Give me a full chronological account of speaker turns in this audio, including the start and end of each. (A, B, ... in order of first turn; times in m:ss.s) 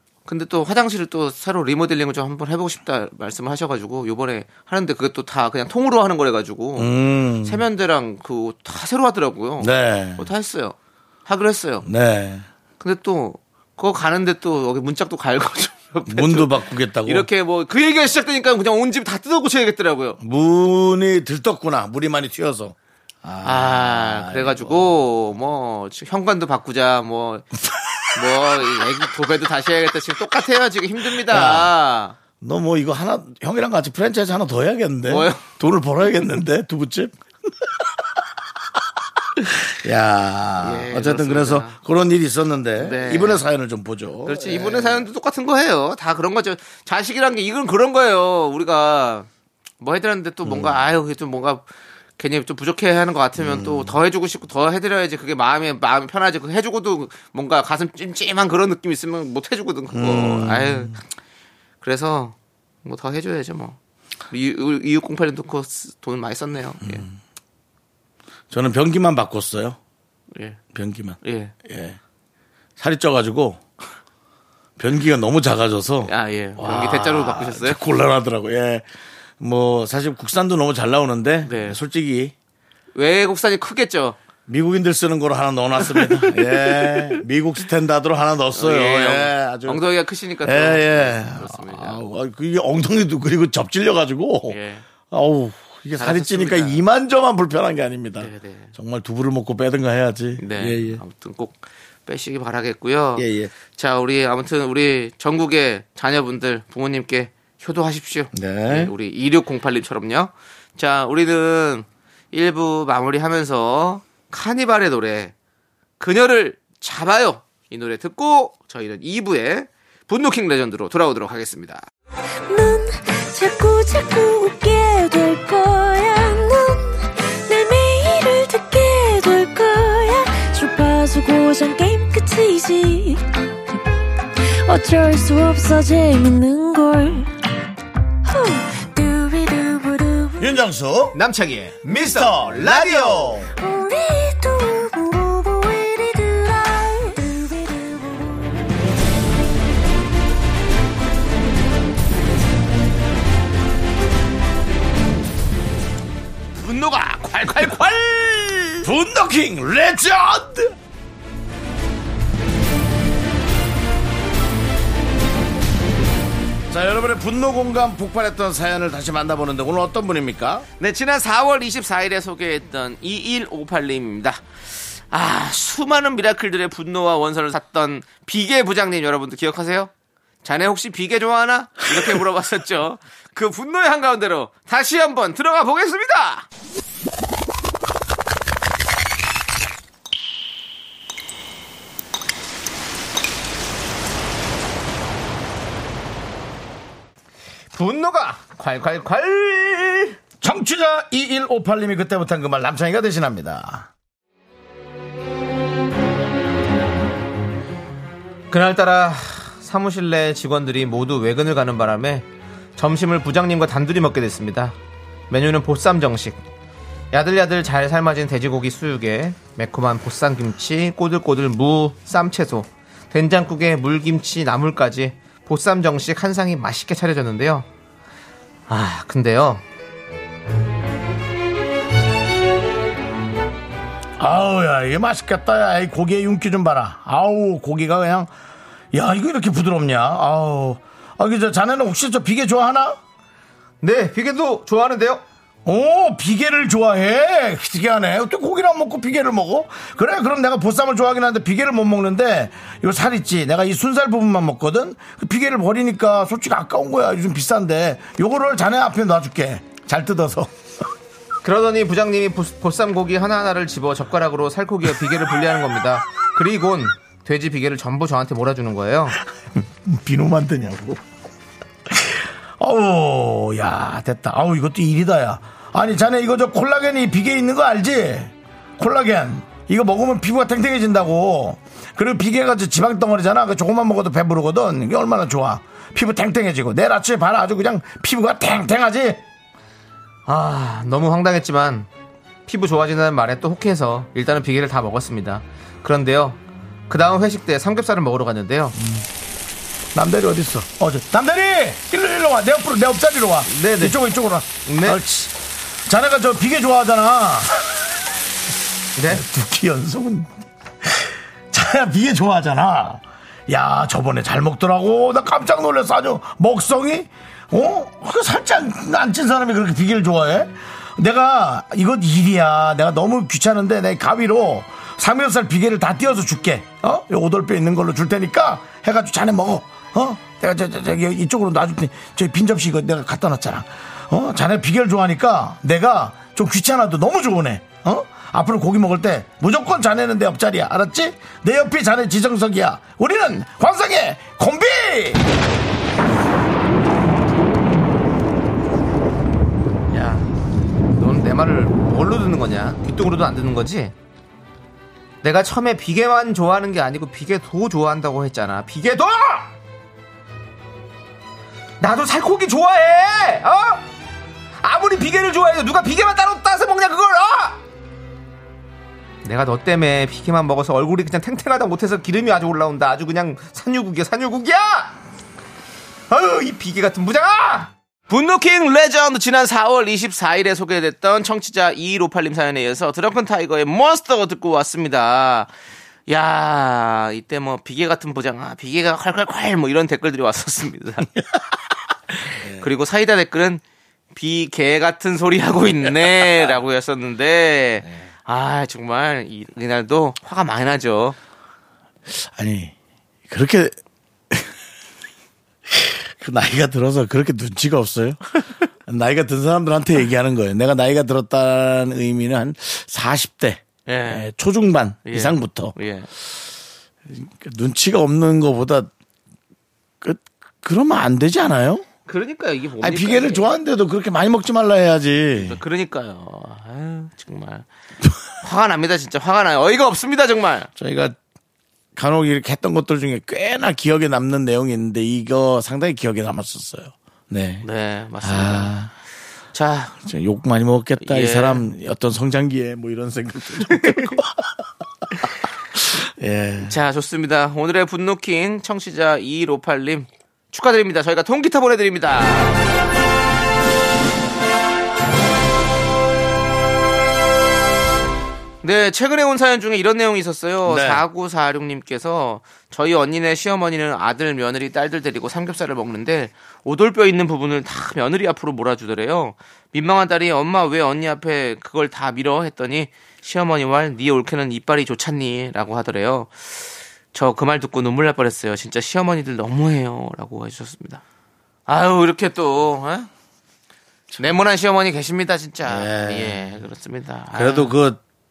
0:00.2-0:06.9 A
0:06.8-0:07.6 B
0:07.4-0:11.8 A
0:09.6-0:10.3 B
0:11.8-0:12.4 B
0:12.8-0:20.2 A
0:16.1-0:17.3 B
0:20.2-0:24.9 B
0:23.4-0:27.5 A
0:28.1-0:32.2 A
0:31.2-0:31.7 B
0:32.4-0:38.1 B
0:35.1-0:35.5 A
0:39.3-0:45.1 B
0:40.6-0:41.8 A
0:42.8-0:43.4 A
0:44.2-0:49.3 A
0:49.8-0:51.6 A
0:50.4-0:50.8 B
0:52.2-1:01.0 A
0:53.4-0:54.0 B
0:59.9-1:01.0 B
1:01.8-1:03.8 A
1:04.3-1:07.0 A
1:06.8-1:07.1 B
1:08.5-1:09.8 B
1:10.3-1:10.6 A
1:10.7-1:12.0 B
1:11.2-1:11.5 A
1:12.8-1:13.6 B
1:14.8-1:18.9 B
1:16.1-1:17.8 A
1:19.4-1:22.3 B
1:21.4-1:21.8 A
1:22.9-1:24.2 A
1:24.5-1:29.8 B
1:25.8-1:27.2 A
1:28.5-1:32.0 A
1:30.4-1:34.6 B
1:34.5-1:34.8 A
1:35.1-1:41.0 B
1:36.0-1:36.8 A
1:38.2-1:38.7 A
1:40.4-1:55.3 A
1:43.2-1:43.5 B
1:48.3-1:48.9 B
1:56.0-2:01.8 A
2:02.5-2:13.8 C
2:14.4-2:17.3 C
2:18.2-2:20.5 C
2:20.4-2:21.2 B
2:21.1-2:23.4 A
2:21.8-2:23.5 B
2:23.6-2:28.4 C
2:36.6-2:38.9 A
2:38.8-2:40.7 B
2:46.7-2:50.6 B
2:50.8-2:59.9 A
3:00.4-3:06.5 A
3:17.7-3:20.2 A
3:20.4-3:23.9 B
3:28.5-3:32.2 A
3:32.8-3:34.7 A
3:35.3-3:36.4 A
3:37.1-3:47.6 A
3:48.7-3:49.6 A
3:54.2-3:58.3 B
3:58.9-4:03.0 B
4:03.8-4:05.2 A
4:05.6-4:20.5 B
4:21.4-4:29.2 A
4:29.6-4:31.0 B
4:31.9-4:49.2 B
4:50.3-4:51.9 A
4:52.5-4:58.8 A
4:58.8-4:59.0 B
4:59.9-5:05.3 B
5:03.4-5:04.0 A
5:04.6-5:05.0 A
5:05.8-5:07.8 B
5:09.0-5:09.2 A
5:09.0-5:45.2 B
5:49.9-5:50.3 A
5:51.0-5:53.9 A
5:55.2-5:59.5 A
6:01.8-6:03.8 A
6:04.6-6:07.6 A
6:09.2-6:14.9 A
6:16.1-6:25.5 A
6:26.1-6:31.1 A
6:32.2-6:33.6 A
6:32.3-6:32.7 B
6:34.1-6:41.2 A
6:36.1-6:36.4 B
6:42.1-6:42.7 B
6:43.3-6:43.7 B
6:45.7-6:55.7 B
6:53.8-6:54.3 A
6:55.0-6:56.1 A
6:57.1-6:58.9 B
7:00.0-7:01.8 B
7:02.1-7:03.5 A
7:02.8-7:05.6 B
7:05.4-7:07.6 A
7:08.4-7:10.7 A
7:10.8-7:11.2 B
7:11.9-7:17.6 B
7:17.6-7:18.7 A
7:18.2-7:18.9 B
7:19.5-7:20.0 A
7:20.0-7:26.7 B
7:21.0-7:21.6 A
7:23.8-7:24.1 A
7:26.6-7:32.6 A
7:38.6-8:01.0 A
7:40.6-7:41.0 B
8:01.7-8:03.1 A
8:04.1-8:04.4 B
8:04.2-8:07.8 A
8:05.6-8:06.6 B
8:07.3-8:08.0 B